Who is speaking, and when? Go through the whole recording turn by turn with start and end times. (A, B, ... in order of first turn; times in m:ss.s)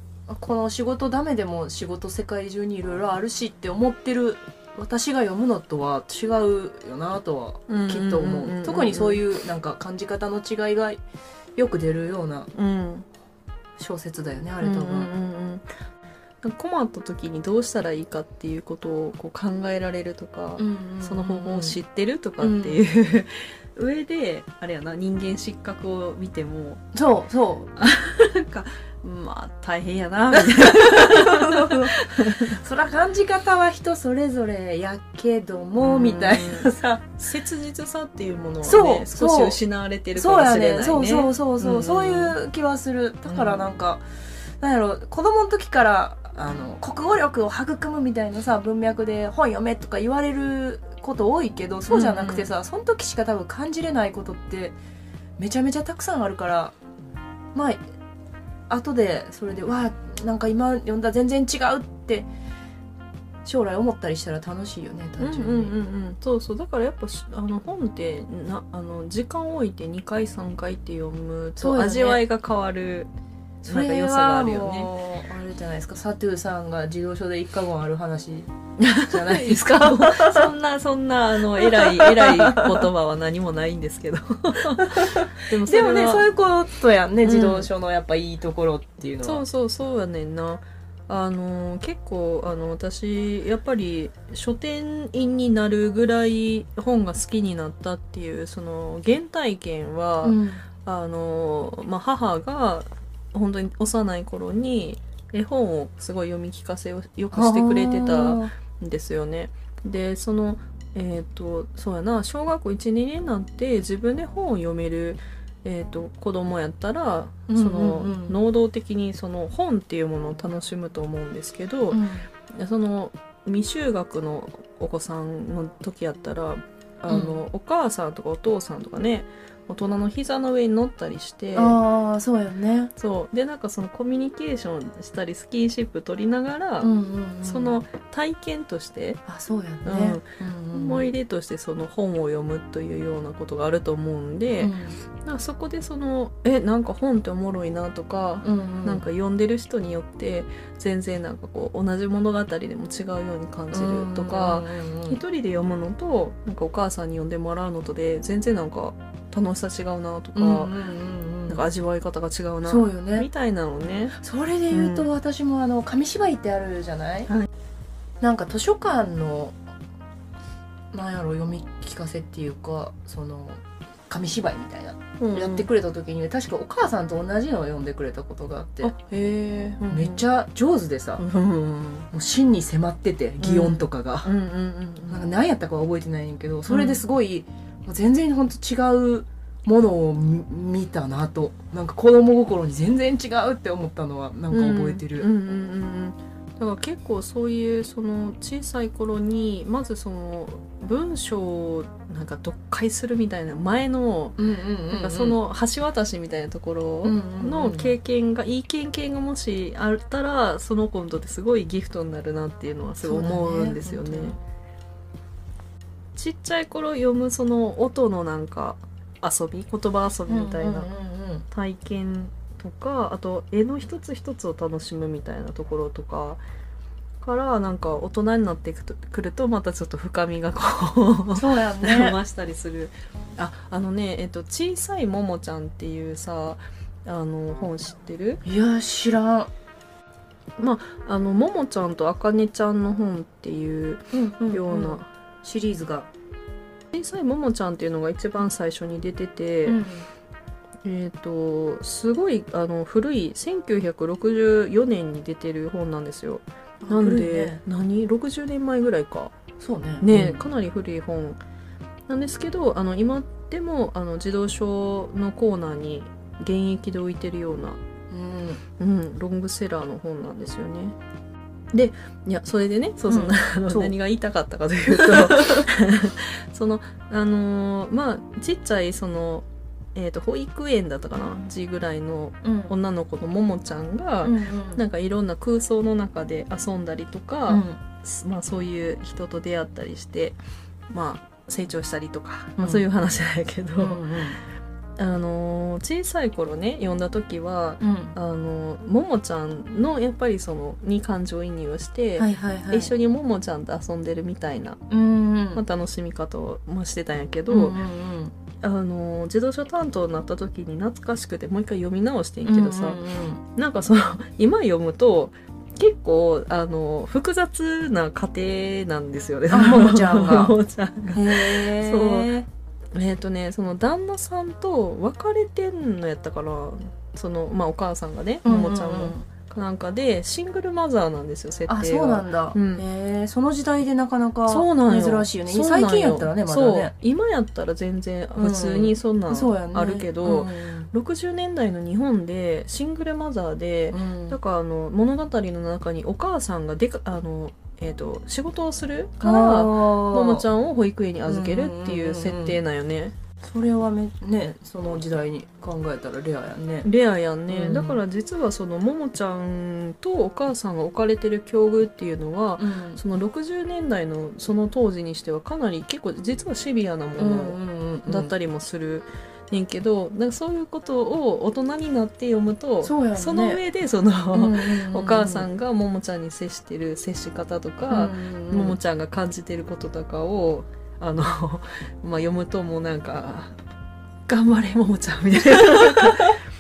0:00.3-0:11.0 A
0:07.7-0:09.2 B
0:11.6-0:12.5 A
0:12.5-0:13.1 B
0:13.8-0:15.1 A
0:14.6-0:15.7 B
0:16.4-0:26.8 B
0:20.6-0:21.8 A
0:22.4-0:22.8 A
0:26.9-0:27.7 A
0:27.8-0:32.6 B
0:30.3-0:37.0 A
0:35.8-0:42.4 B
0:38.6-0:39.6 A
0:40.2-0:44.0 A
0:43.3-0:43.7 B
0:44.6-0:54.8 A
0:51.9-0:52.5 B
0:55.4-0:56.8 A
0:57.5-0:57.8 A
0:58.7-1:02.3 A
1:03.4-1:05.8 A
1:05.2-1:13.1 B
1:11.6-1:12.2 A
1:13.6-1:14.9 B
1:13.6-1:20.5 A
1:18.8-1:26.3 B
1:21.6-1:22.8 A
1:24.8-1:29.4 A
1:27.2-1:27.7 B
1:29.2-2:11.8 B
1:40.2-1:40.6 A
1:47.3-1:48.5 A
1:57.5-1:58.4 A
2:01.9-2:02.3 A
2:07.1-2:07.4 A
2:11.5-2:12.9 A
2:13.0-2:16.9 B
2:16.8-2:17.8 A
2:17.4-2:19.2 B
2:19.3-2:21.1 A
2:19.8-2:40.7 B
2:24.6-2:25.0 A
2:28.4-2:29.0 A
2:33.7-2:35.2 A
2:40.4-2:41.6 A
2:41.5-2:44.2 B
2:42.7-2:43.3 A
2:44.2-2:47.3 A
2:44.7-2:45.1 B
2:48.2-2:49.6 A
2:50.9-2:58.9 A
2:55.2-2:55.7 B
2:58.8-3:00.2 B
2:59.9-3:01.2 A
3:01.2-3:02.1 B
3:02.1-3:04.3 A
3:03.4-3:05.2 B
3:05.1-3:15.3 A
3:06.7-3:07.0 B
3:14.5-3:24.4 B
3:24.4-3:25.4 A
3:24.9-3:34.4 B
3:27.0-3:27.9 A
3:33.0-3:34.4 A
3:36.2-3:40.9 B
3:40.3-3:41.5 A
3:41.5-3:46.4 B
3:47.2-3:58.4 B
3:51.4-3:52.2 A
3:58.4-3:59.5 A
4:00.6-4:05.1 B
4:04.1-4:06.1 A
4:06.9-4:09.8 B
4:09.7-4:10.1 A
4:10.8-4:19.3 B
4:16.8-4:17.6 A
4:19.6-4:20.4 A
4:20.0-4:21.4 B
4:22.1-4:27.8 B
4:28.1-4:28.6 A
4:28.8-4:31.0 B
4:31.7-4:50.4 B
4:33.1-4:33.9 A
4:34.9-4:35.7 A
4:42.4-4:42.7 A
4:44.2-4:44.8 A
4:47.5-4:47.8 A
4:50.9-4:54.0 B
4:52.6-4:52.8 A
4:53.8-4:54.4 A
4:55.0-5:04.8 B
4:57.8-4:58.2 A
5:02.2-5:02.9 A
5:04.9-5:05.6 A
5:05.6-5:07.8 B
5:07.5-5:08.3 A
5:08.6-5:22.3 B
5:12.4-5:13.4 A
5:19.5-5:20.6 A
5:21.1-5:22.5 A
5:22.9-5:32.8 B
5:28.4-5:29.2 A
5:31.7-5:36.9 A
5:34.5-5:53.2 B
5:38.4-5:40.9 A
5:43.9-5:44.4 A
5:49.2-5:50.5 A
5:51.3-5:52.6 A
5:53.4-5:56.9 A
5:56.8-6:23.6 B
5:57.5-5:58.0 A
6:02.6-6:03.0 A
6:07.2-6:08.3 A
6:12.8-6:13.6 A
6:14.3-6:15.5 A
6:17.9-6:18.8 A
6:24.3-6:26.4 B